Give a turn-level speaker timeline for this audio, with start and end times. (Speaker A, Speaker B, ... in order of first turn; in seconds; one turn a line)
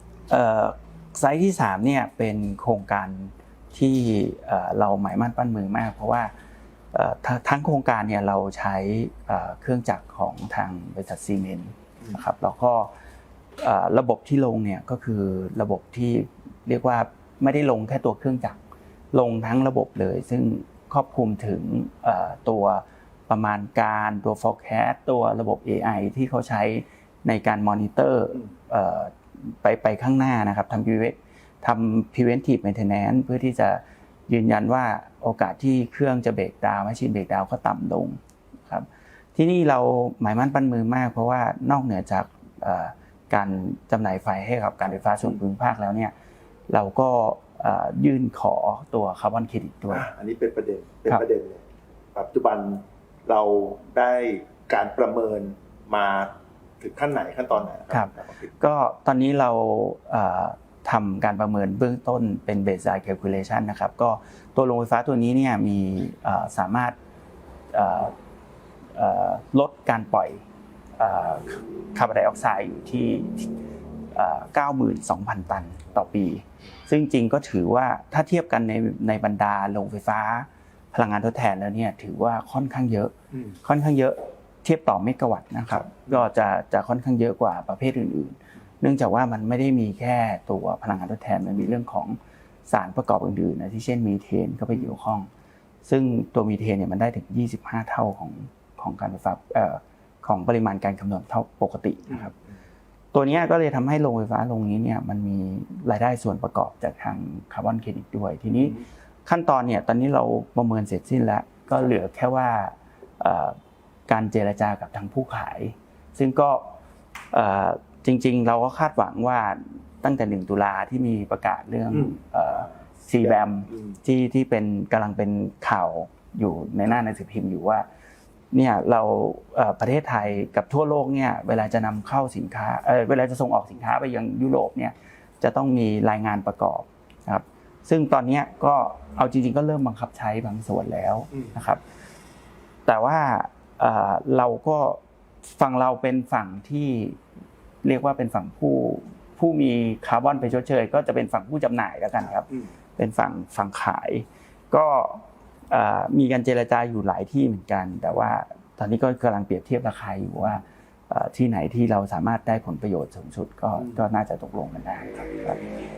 Speaker A: 0.3-6.3
Speaker A: 6.9-12.9
Speaker A: 13.6-18.6
Speaker A: 19.1-46.1
Speaker A: 46.7-50.1
Speaker B: 49.9-51.6
Speaker B: 52.1-58.5
Speaker A: 57.9-67.0
Speaker A: 67.7-68.1
Speaker A: 69.0-70.4
Speaker A: 71.0-73.5
Speaker A: 74.1-83.1
Speaker B: 83.3-83.6
Speaker A: 83.6-92.2
Speaker B: 85.8-86.3
Speaker A: 92.7-95.3
Speaker A: 95.8-102.3
Speaker B: 102.1-102.3
Speaker A: 103.1-113.6
Speaker A: 114.1-116.7
Speaker A: 117.3-127.9
Speaker B: 121.9-124.0
Speaker A: 128.5-141.8
Speaker B: 141.3-141.6
Speaker A: 142.9-147.2
Speaker A: 147.8-165.7
Speaker B: 152.2-152.7
Speaker B: 163.8-164.1